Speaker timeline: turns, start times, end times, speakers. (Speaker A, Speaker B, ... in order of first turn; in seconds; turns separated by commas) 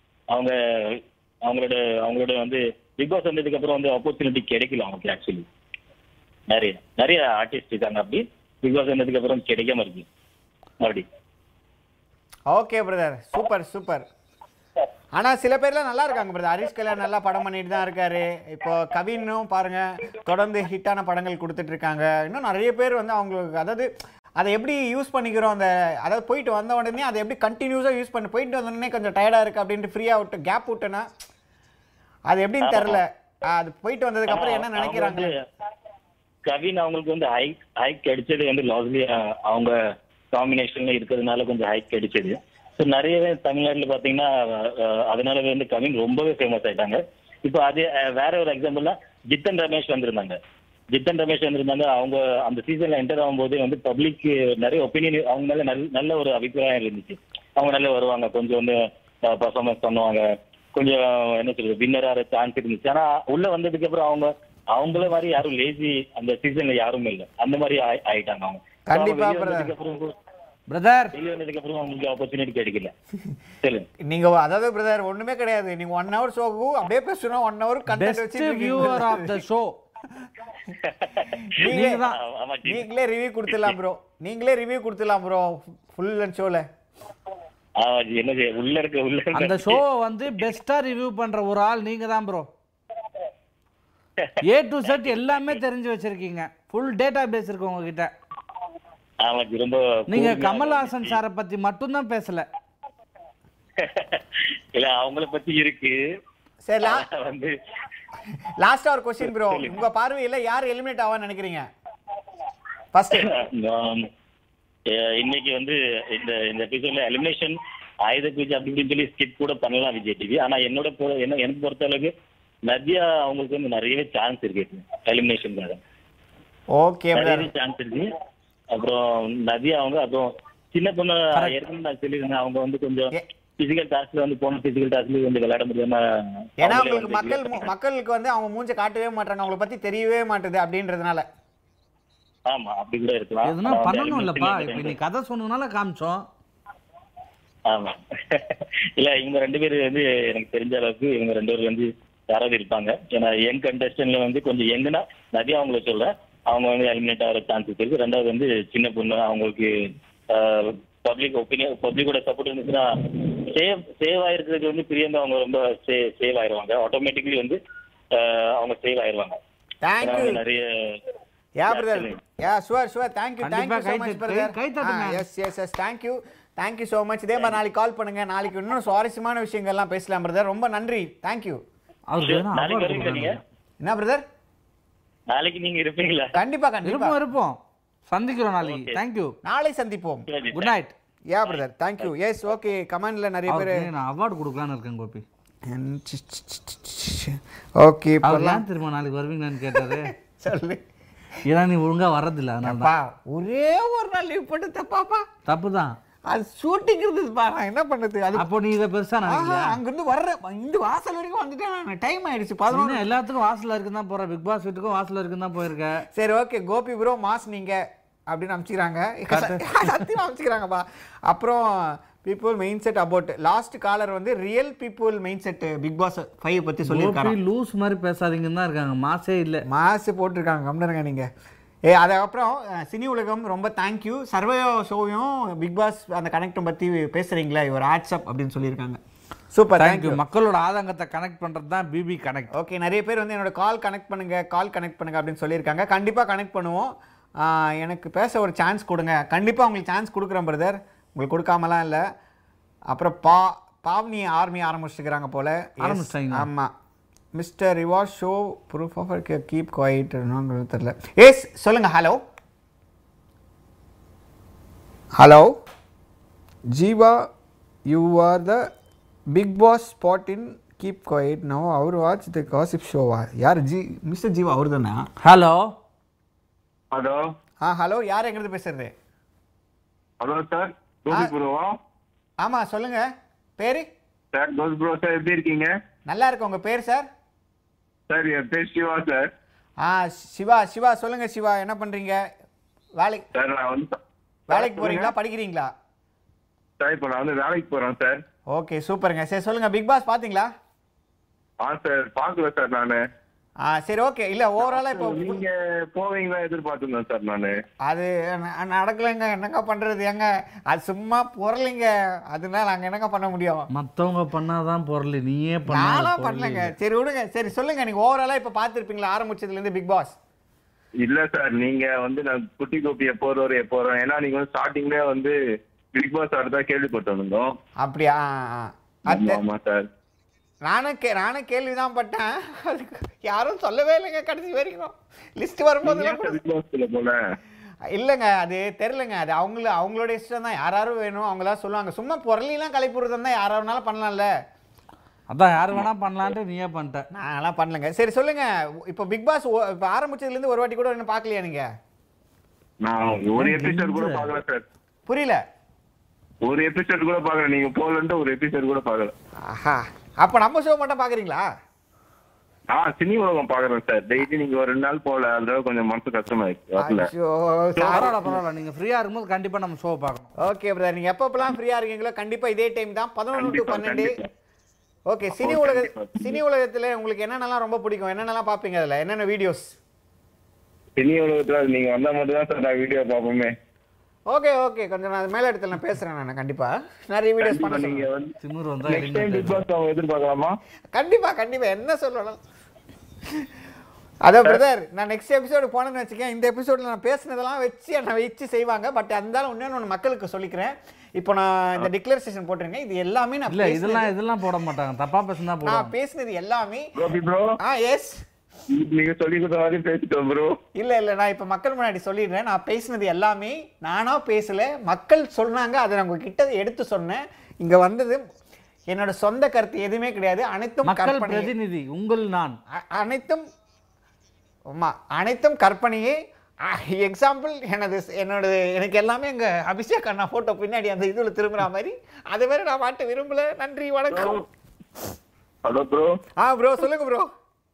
Speaker A: 0.3-5.5, Speaker A: 6.5-10.1, Speaker A: 10.8-11.1, Speaker B: 12.5-14.1, Speaker B: 15.2-31.1, Speaker B: 32.3-35.3, Speaker A: 32.6-33.0, Speaker A: 34.3-35.4, Speaker A: 36.5-39.7, Speaker A: 40.3-50.4, Speaker A: 50.9-70.1, Speaker B: 68.9-69.7, Speaker C: 70.7-71.2, Speaker A: 71.1-72.9, Speaker B: 74.0-79.4, Speaker C: 77.9-79.7, Speaker A: 80.8-82.9, Speaker B: 81.5-82.0, Speaker C: 81.6-82.2, Speaker B: 82.7-86.7, Speaker A: 87.8-89.8, Speaker C: 89.3-92.5, Speaker A: 94.2-95.6, Speaker C: 94.5-98.1, Speaker A: 99.2-101.2, Speaker C: 100.1-102.5, Speaker A: 103.8-106.0, Speaker B: 106.7-107.1, Speaker A: 106.8-107.5, Speaker B: 108.6-111.7, Speaker A: 109.3-109.8, Speaker B: 112.9-113.3, Speaker A: 113.2-114.1, Speaker A: 114.9-122.1, Speaker A: 122.7-125.8, Speaker B: 126.7-127.5, Speaker A: 127.2-128.1, Speaker A: 128.7-137.7, Speaker B: 136.6-141.2, Speaker A: 142.5-145.0, Speaker C: 143.4-146.2, Speaker A: 147.7-167.6, Speaker A: 168.1-169.4, Speaker B: 169.8-170.4, Speaker A: 170.0-171.0, Speaker B: 171.6-181.6, Speaker A: 171.7-172.2, Speaker C: 173.4-175.2, Speaker C: 182.1-183.4, Speaker A: 182.2-183.4, Speaker B: 183.8-184.2, Speaker A: 185.3-186.4, Speaker B: 186.4-187.2, Speaker C: 186.8-187.6, Speaker C: 188.1-189.3, Speaker A: 188.6-189.0, Speaker B: 189.4-190.3, Speaker A: 190.3-190.7, Speaker C: 190.5-190.9, Speaker B: 191.3-193.9, Speaker C: 193.5-195.2, Speaker B: 195.7-198.6, Speaker C: 198.2-200.1, Speaker B: 199.7-200.8, Speaker C: 201.5-202.9, Speaker B: 202.6-205.3, Speaker C: 205.5-205.9, Speaker B: 206.3-208.5, Speaker C: 208.3-209.8, Speaker B: 209.3-213.1, Speaker C: 212.7-216.1, Speaker B: 216.1-227.4, Speaker C: 219.3-219.7, Speaker C: 226.9-229.7, Speaker B: 229.7-231.3, Speaker B: 231.9-239.0, Speaker B: 239.5-240.2, Speaker C: 239.8-242.5, Speaker B: 242.5-252.0, Speaker B: 252.9-256.7, Speaker C: 255.8-256.5, Speaker B: 257.4-262.2, Speaker B: 265.2-265.6, Speaker B: 266.7-267.3, Speaker B: 267.9-268.7, Speaker B: 269.3-275.1, Speaker C: 275.2-275.7, Speaker D: 276.9-277.2, Speaker B: 277.6-278.9, Speaker D: 280.2-281.8, Speaker B: 282.4-283.1, Speaker B: 283.6-283.9, Speaker D: 284.3-285.7, Speaker B: 286.1-287.1, Speaker D: 288.1-289.2, Speaker B: 289.8-292.2, Speaker B: 293.0-293.2, Speaker D: 293.3-294.0, Speaker B: 294.5-295.7, Speaker D: 294.5-295.1, Speaker D: 296.8-298.2, Speaker B: 298.5-300.5, Speaker D: 301.6-303.0, Speaker B: 303.6-305.4, Speaker D: 304.6-307.5, Speaker B: 307.9-313.7, Speaker C: 313.7-316.7, Speaker B: 315.7-320.2, Speaker D: 321.0-325.4, Speaker D: 325.9-327.6, Speaker B: 327.8-329.4, Speaker D: 329.1-329.9, Speaker B: 330.6-336.4, Speaker D: 335.8-337.2, Speaker B: 337.9-344.3, Speaker C: 345.3-347.1, Speaker B: 347.1-351.7, Speaker D: 352.8-354.6, Speaker C: 353.4-354.3, Speaker B: 355.1-355.4, Speaker D: 356.4-359.1, Speaker B: 359.4-361.4, Speaker D: 362.7-367.1, Speaker B: 366.8-368.4, Speaker C: 367.8-370.3, Speaker D: 367.9-368.1, Speaker B: 370.4-374.2, Speaker D: 373.3-374.3, Speaker B: 375.1-379.8, Speaker D: 375.3-376.4, Speaker D: 381.0-383.5, Speaker B: 384.3-388.0, Speaker D: 387.4-388.3, Speaker C: 388.4-389.6, Speaker D: 388.9-390.6, Speaker B: 390.9-392.4, Speaker B: 394.2-404.1, Speaker C: 403.5-405.9, Speaker B: 405.6-406.9, Speaker D: 407.0-407.6, Speaker B: 407.6-408.2, Speaker D: 408.7-410.6, Speaker B: 410.8-418.2, Speaker B: 418.9-421.5, Speaker C: 420.8-422.6, Speaker B: 422.7-423.4, Speaker B: 424.7-434.4, Speaker D: 434.1-434.4, Speaker D: 435.6-436.1, Speaker B: 436.4-437.3